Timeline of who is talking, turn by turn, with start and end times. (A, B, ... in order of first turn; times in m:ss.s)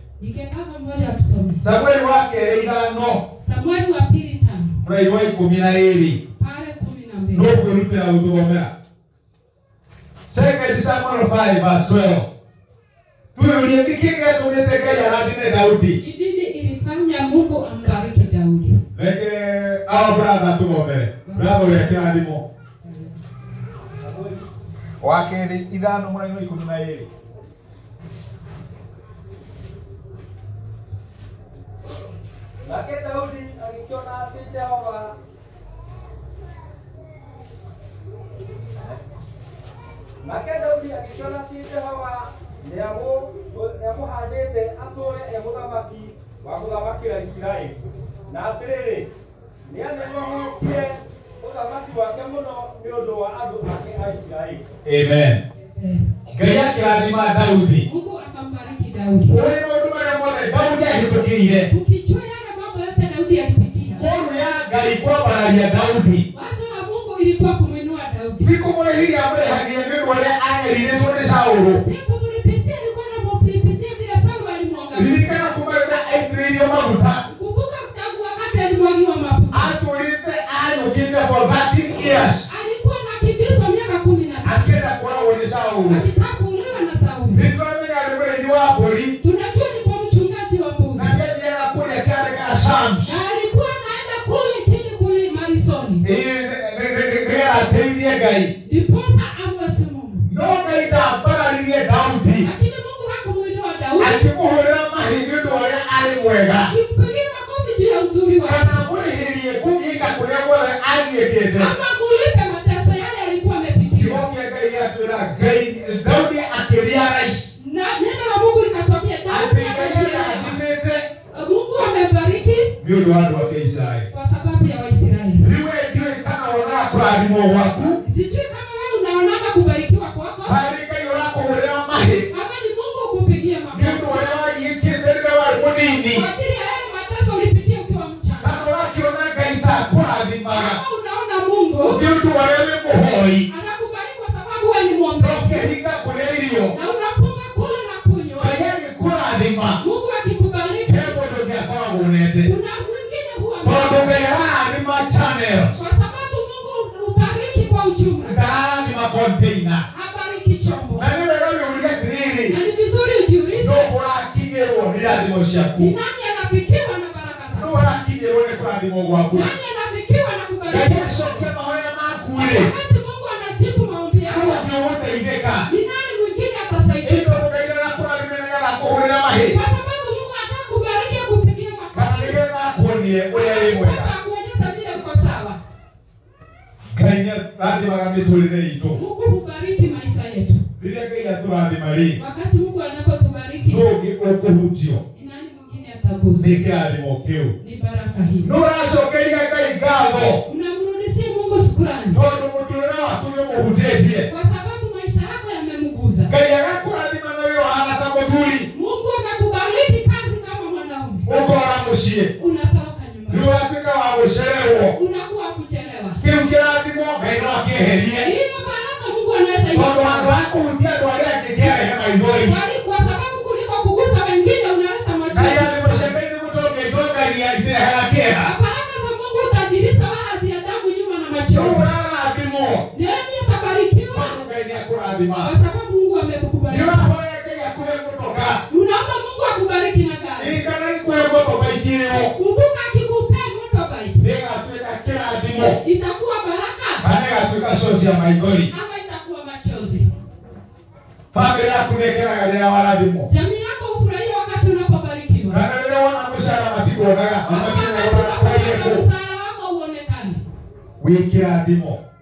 0:00.2-0:01.6 A
0:01.6-0:03.2 B
0:03.4-0:04.8 A
0:04.8-0:06.2 B
0:06.4-0:07.6 A
0:07.3-0:08.7 B
0:10.3-0:12.3 B
0:13.4-0:16.0 B
0:16.0-0:18.8 A
0:18.9-0:22.4 B
0:21.2-0:22.0 A
0:24.0-0:24.4 C
0:25.0-0:27.1 B
0:32.6-0:35.1 C
0:40.2-0:47.8 C
0:48.3-0:49.1 C
0:49.7-0:54.6 C
0:54.8-0:55.4 B
0:55.8-0:56.1 A
0:56.3-0:57.8 B
0:57.8-0:59.4 A
0:59.3-1:01.7 B
1:01.7-1:04.0 A
1:04.0-1:06.2 B
1:06.3-1:08.5 A
1:08.4-1:11.8 B
1:11.6-1:15.4 A
1:14.9-1:17.2 B
1:17.3-1:19.7 A
1:19.5-1:22.4 B
1:22.5-1:24.7 A
1:24.4-1:26.0 B
1:25.9-1:27.5 A
1:27.3-1:29.2 B
1:29.2-1:31.2 A
1:31.0-1:33.2 B
1:33.0-1:36.0 A
1:36.0-1:38.5 B
1:38.6-1:40.3 A
1:40.3-1:42.5 B
1:42.4-1:44.3 A
1:44.0-1:46.7 B
1:46.6-1:48.8 A
1:48.4-1:51.7 B
1:51.6-1:54.2 A
1:54.0-1:57.4 B
1:57.6-2:00.6 A
1:59.3-2:01.1 B
2:01.3-2:02.7 A
2:02.8-2:04.1 B
2:04.1-2:05.5 A
2:05.4-2:08.0 B
2:08.0-2:10.6 A
2:10.4-2:12.3 B
2:12.3-2:14.2 A
2:13.7-2:16.2 B
2:16.0-2:18.6 A
2:18.4-2:20.8 B
2:20.5-2:22.0 A
2:21.8-2:23.5 B
2:23.5-2:25.6 A
2:25.2-2:26.8 B
2:26.7-2:28.6 A
2:28.4-2:29.8 B
2:29.8-2:31.2 A
2:30.9-2:32.5 B
2:32.4-2:34.2 A
2:33.6-2:35.8 B
2:35.7-2:38.4 A
2:38.3-2:39.9 B
2:39.9-2:41.1 A
2:41.0-2:42.6 B
2:42.5-2:43.9 A
2:43.6-2:45.9 B
2:45.8-2:47.8 A
2:47.6-2:49.5 B
2:49.3-2:51.5 A
2:50.7-2:52.7 B
2:52.4-2:54.6 A
2:54.3-2:55.7 B
2:55.7-2:57.4 A
2:57.0-2:59.6 B
2:59.5-3:02.4 A
3:01.9-3:04.1 B
3:03.3-3:05.6 A
3:06.9-3:09.0 B
3:08.9-3:10.6 A
3:10.8-3:12.2 B
3:12.2-3:13.9 A
3:13.6-3:15.0 B
3:15.1-3:16.6 A
3:16.4-3:17.6 B
3:17.6-3:18.5 A
3:18.4-3:20.4 B
3:20.4-3:22.2 A
3:22.1-3:24.3 B
3:24.3-3:26.3 A
3:26.3-3:28.7 B
3:28.7-3:31.3 A
3:31.3-3:32.3 B
3:32.4-3:33.5 A
3:33.3-3:35.0 B
3:34.9-3:36.2 A
3:36.2-3:38.3 B
3:38.2-3:40.3 A
3:39.7-3:42.6 B
3:42.4-3:46.1 A
3:45.3-3:48.5 B
3:48.4-3:51.9 A
3:51.5-3:52.9 B
3:52.9-3:54.4 A
3:54.1-3:55.5 B
3:55.4-3:57.1 A
3:56.7-3:58.6 B
3:58.7-4:00.6 A
4:00.4-4:02.3 B
4:02.1-4:04.2 A
4:04.2-4:05.8 B
4:05.6-4:07.0 A
4:07.0-4:08.7 B
4:08.7-4:10.1 A
4:11.3-4:13.3 B
4:13.3-4:15.6 A
4:15.5-4:19.0 B
4:17.5-4:20.4 A
4:21.0-4:22.0 B